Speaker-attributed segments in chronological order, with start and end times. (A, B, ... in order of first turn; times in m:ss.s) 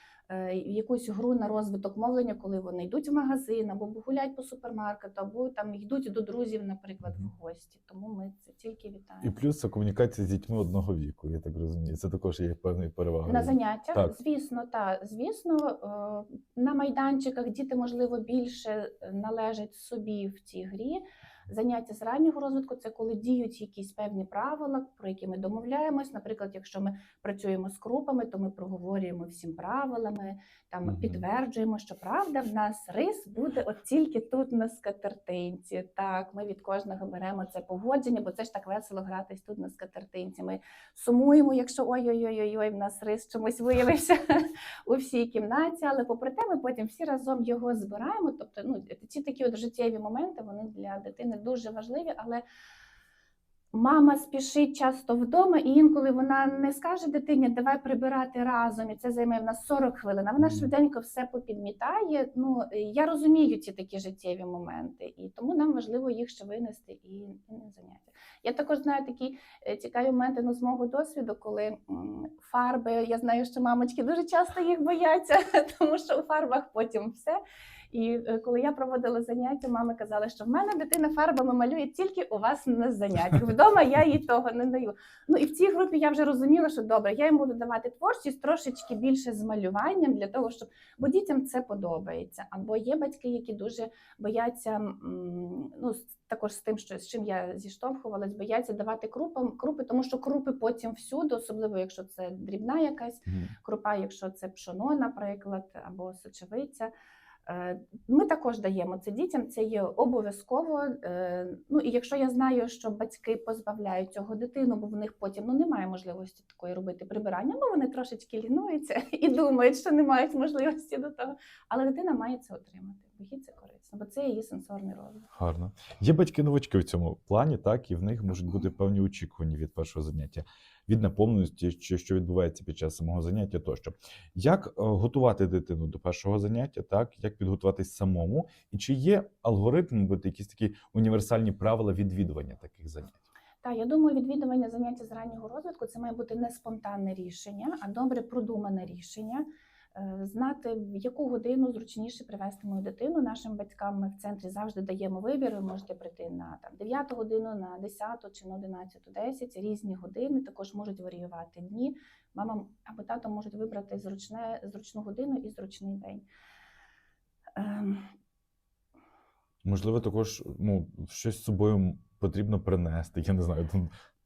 0:00.3-0:09.3 A
0:09.2-0:14.1 B
0:13.2-0:52.4 A
0:30.8-0:31.2 B
0:53.7-1:17.4 A
1:00.4-1:00.7 B
1:17.9-1:46.9 A
1:43.2-1:43.5 B
1:47.5-2:05.3 A
2:05.3-2:23.2 B
2:23.6-2:46.2 A
2:47.6-2:48.1 A
2:49.6-2:53.9 B